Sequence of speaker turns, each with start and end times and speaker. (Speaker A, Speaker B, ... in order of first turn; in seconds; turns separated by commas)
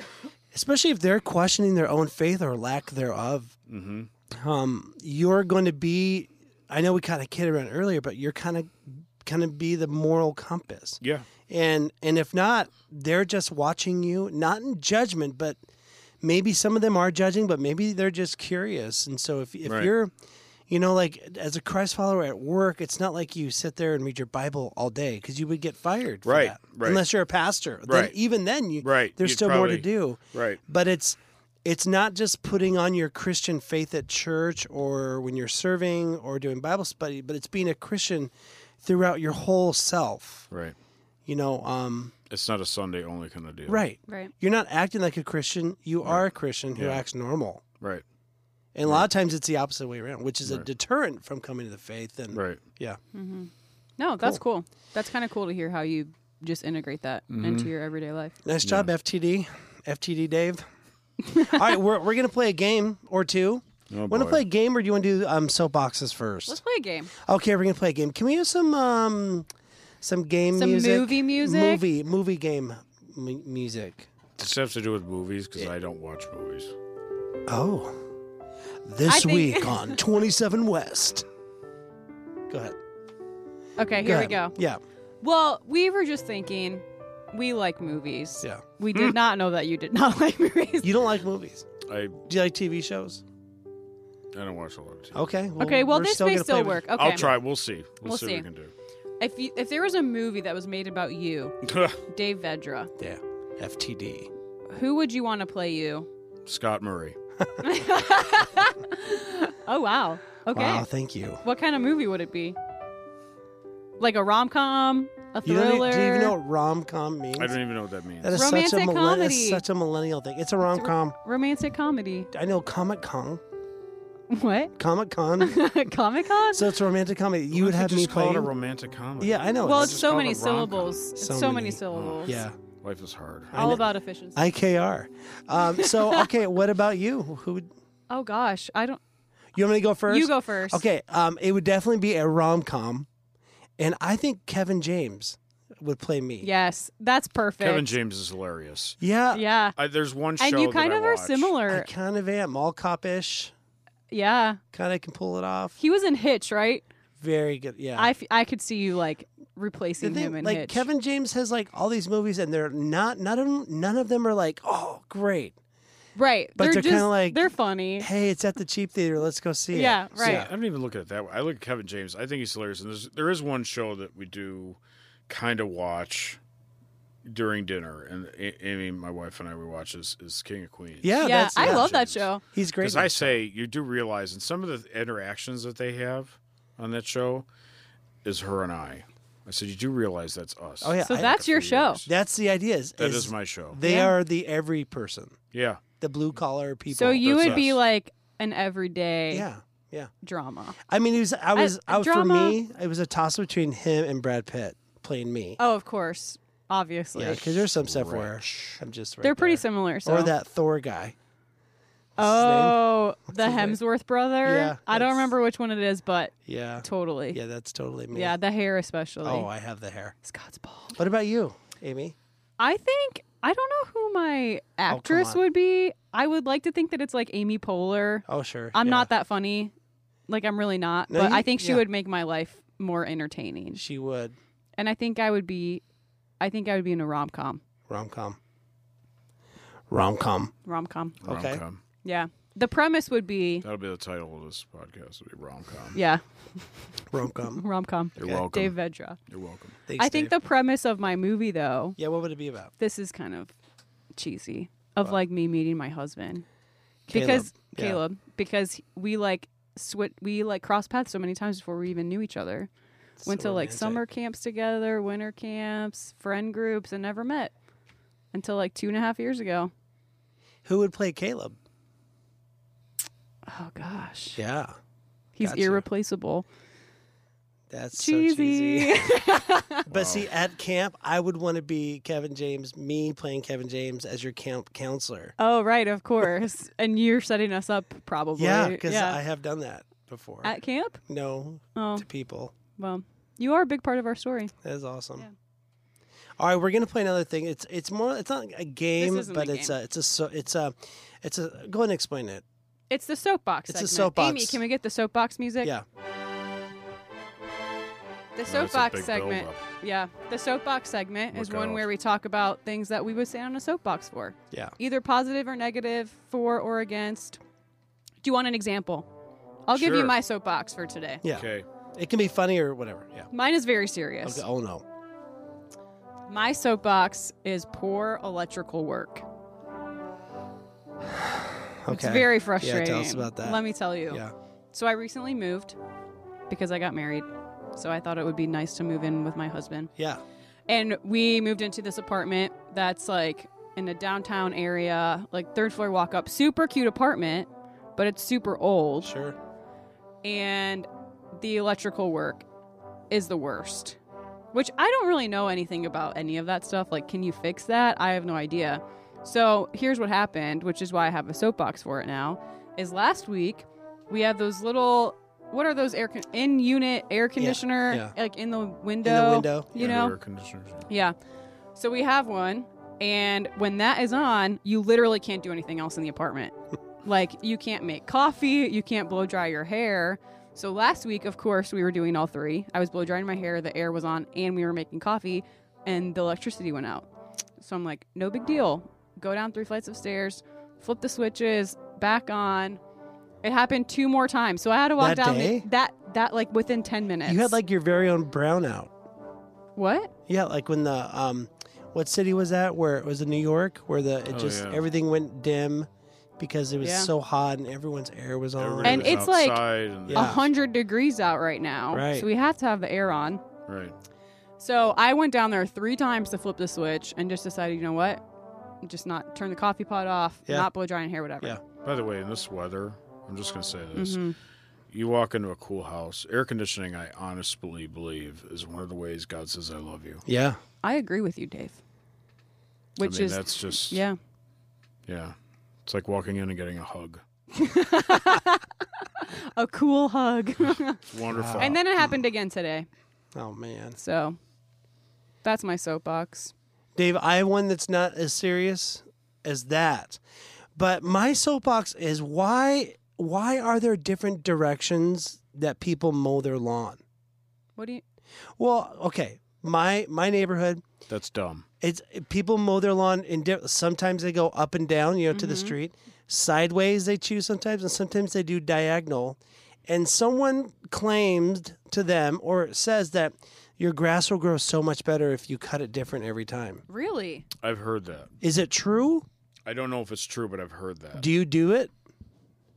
Speaker A: 0.5-3.5, Speaker B: 3.7-4.1, Speaker A: 4.3-15.6, Speaker B: 11.0-11.3, Speaker A: 16.2-20.1, Speaker B: 19.6-19.9, Speaker A: 20.7-38.3, Speaker B: 26.2-27.0, Speaker B: 27.9-28.1, Speaker B: 28.8-30.6, Speaker A: 38.8-40.5, Speaker B: 40.5-40.8, Speaker A: 41.2-42.1, Speaker B: 42.3-43.8, Speaker A: 43.7-47.6, Speaker C: 44.1-44.3, Speaker B: 46.7-47.0, Speaker A: 48.7-53.0, Speaker B: 52.3-52.6, Speaker C: 53.1-58.4, Speaker B: 57.3-57.7, Speaker A: 58.4-60.6, Speaker B: 58.6-58.9, Speaker C: 61.2-61.6, Speaker A: 61.3-66.6, Speaker B: 63.9-64.4, Speaker C: 66.5-67.1, Speaker A: 67.1-69.5, Speaker A: 70.0-74.1, Speaker C: 70.5-71.8, Speaker B: 74.4-76.7, Speaker A: 77.5-78.1, Speaker A: 78.8-81.2, Speaker C: 79.0-80.0, Speaker A: 82.5-82.8, Speaker C: 83.8-84.5, Speaker A: 84.0-84.8, Speaker C: 85.2-90.9, Speaker A: 90.8-91.7, Speaker B: 91.8-92.2, Speaker A: 92.2-93.2, Speaker B: 94.3-95.2, Speaker A: 95.1-97.3, Speaker C: 95.6-97.3, Speaker B: 96.9-98.7, Speaker C: 98.0-98.5, Speaker C: 99.2-102.9, Speaker B: 101.6-102.0, Speaker A: 103.0-104.3, Speaker C: 104.7-106.1, Speaker B: 106.5-107.2, Speaker C: 107.6-110.8, Speaker A: 110.5-111.4, Speaker C: 111.4-112.6, Speaker C: 114.0-116.3, Speaker A: 115.4-117.6, Speaker B: 117.3-118.4, Speaker A: 118.2-121.2, Speaker C: 118.3-119.6, Speaker C: 120.6-122.3, Speaker A: 122.3-123.4, Speaker C: 124.3-124.7, Speaker A: 124.8-125.6, Speaker C: 125.4-126.7, Speaker A: 126.5-128.5, Speaker B: 127.5-130.9, Speaker A: 129.2-130.1, Speaker C: 129.6-132.3, Speaker A: 131.2-132.6, Speaker B: 131.9-133.6, Speaker A: 133.5-137.7, Speaker C: 133.5-134.4, Speaker C: 135.7-136.3, Speaker C: 138.1-139.0, Speaker A: 139.5-143.1, Speaker C: 140.1-140.8, Speaker A: 143.8-146.5, Speaker C: 146.4-147.9, Speaker B: 147.6-149.0, Speaker A: 149.0-149.4, Speaker C: 149.3-149.7, Speaker B: 149.8-151.5, Speaker C: 150.4-151.9, Speaker A: 151.7-153.5, Speaker C: 154.1-154.6, Speaker A: 154.7-155.8, Speaker C: 155.8-156.8, Speaker A: 157.2-158.1, Speaker C: 157.9-160.9, Speaker A: 160.0-165.6, Speaker C: 166.2-168.1, Speaker A: 166.6-167.4, Speaker A: 168.0-170.5, Speaker C: 169.7-170.5, Speaker B: 170.2-176.4, Speaker B: 177.2-182.3, Speaker A: 181.0-181.9, Speaker C: 181.2-182.4, Speaker A: 182.5-183.3, Speaker B: 182.8-187.5, Speaker B: 188.2-192.1, Speaker A: 190.8-191.4, Speaker C: 191.0-192.0, Speaker A: 192.1-195.4, Speaker B: 193.0-193.8, Speaker C: 193.8-194.1, Speaker B: 195.5-195.8, Speaker A: 196.0-197.6, Speaker C: 196.9-199.4, Speaker B: 197.2-197.8, Speaker A: 199.3-200.1, Speaker C: 200.2-200.8, Speaker A: 200.8-205.6, Speaker C: 201.5-202.6, Speaker C: 205.6-207.7, Speaker A: 207.2-211.2, Speaker B: 207.8-208.8, Speaker C: 209.2-210.3, Speaker A: 212.2-213.8, Speaker C: 212.2-217.4, Speaker A: 214.4-215.3, Speaker A: 216.4-218.3, Speaker C: 218.1-219.5, Speaker A: 219.2-220.1, Speaker C: 220.2-221.0, Speaker A: 221.0-222.1, Speaker C: 222.6-229.7, Speaker A: 224.9-225.4, Speaker A: 228.3-229.1, Speaker C: 230.3-233.8, Speaker A: 231.1-231.8, Speaker A: 233.7-234.4, Speaker C: 234.8-235.8, Speaker C: 236.4-237.6, Speaker A: 237.9-238.4, Speaker A: 239.9-240.5, Speaker C: 240.6-241.2, Speaker B: 241.2-241.8, Speaker A: 241.2-241.6, Speaker C: 242.0-243.6, Speaker B: 243.6-246.0, Speaker C: 245.9-249.2, Speaker A: 247.1-247.6, Speaker B: 248.2-248.7, Speaker B: 249.3-249.8, Speaker A: 249.9-250.3, Speaker C: 250.0-252.0, Speaker A: 252.0-252.7, Speaker C: 252.8-253.5, Speaker C: 254.1-256.4, Speaker C: 257.1-262.7, Speaker A: 257.1-258.0, Speaker A: 263.2-264.0, Speaker C: 263.2-267.5, Speaker C: 268.3-269.7, Speaker A: 270.6-271.6, Speaker C: 273.5-274.4, Speaker A: 274.4-274.8, Speaker C: 275.4-276.4, Speaker A: 275.4-275.8, Speaker A: 277.7-285.3, Speaker C: 278.0-279.8, Speaker B: 279.9-280.3, Speaker C: 285.4-289.2, Speaker A: 288.4-290.5, Speaker C: 290.4-291.0, Speaker A: 291.1-292.5, Speaker C: 291.7-292.1, Speaker C: 292.8-294.5, Speaker A: 294.6-295.2, Speaker A: 296.4-302.4, Speaker C: 299.0-299.7, Speaker C: 302.9-305.7, Speaker A: 303.7-304.6, Speaker C: 308.3-317.4, Speaker B: 308.5-309.6, Speaker B: 311.3-311.9, Speaker A: 314.5-314.8, Speaker C: 318.2-319.1, Speaker C: 319.7-321.2, Speaker B: 319.7-320.1, Speaker A: 321.2-323.3, Speaker B: 321.3-321.6, Speaker C: 323.3-324.4, Speaker A: 324.2-324.8, Speaker C: 326.3-329.2, Speaker A: 331.1-334.3, Speaker C: 331.9-334.2, Speaker C: 334.7-335.8, Speaker C: 336.5-339.9, Speaker A: 340.0-340.2, Speaker C: 340.7-349.1, Speaker A: 349.0-349.4, Speaker C: 350.2-352.4, Speaker C: 353.1-354.0, Speaker C: 354.5-370.1, Speaker A: 367.4-368.1, Speaker A: 369.0-369.7, Speaker B: 369.8-370.9, Speaker C: 370.9-371.1, Speaker C: 371.8-387.1, Speaker C: 387.6-392.8, Speaker C: 393.4-397.6, Speaker A: 395.0-395.7, Speaker A: 397.2-398.9, Speaker C: 399.8-400.1, Speaker A: 400.3-409.3, Speaker B: 404.3-404.8, Speaker C: 406.8-407.1, Speaker B: 408.6-410.4, Speaker C: 408.8-413.4, Speaker A: 410.1-410.5, Speaker A: 411.9-412.3, Speaker B: 413.7-413.9, Speaker C: 414.6-418.2, Speaker C: 418.8-421.6, Speaker B: 421.8-424.2, Speaker C: 423.9-424.3, Speaker B: 424.9-430.2, Speaker A: 430.2-430.6, Speaker C: 430.8-431.8, Speaker C: 433.0-434.2, Speaker B: 433.0-434.0, Speaker B: 435.1-435.3, Speaker B: 435.9-437.2, Speaker C: 437.5-441.0, Speaker B: 441.0-441.8, Speaker A: 441.3-442.1, Speaker C: 441.6-442.9, Speaker A: 443.3-444.0, Speaker C: 444.0-444.4, Speaker C: 445.4-446.5, Speaker A: 446.9-450.2, Speaker A: 450.7-457.0, Speaker C: 457.8-458.0, Speaker A: 458.6-460.8, Speaker B: 461.1-461.6, Speaker A: 461.8-476.8, Speaker C: 465.3-465.8, Speaker C: 476.9-477.5, Speaker B: 477.6-478.3, Speaker A: 478.4-479.2, Speaker B: 479.6-481.2, Speaker A: 481.1-481.9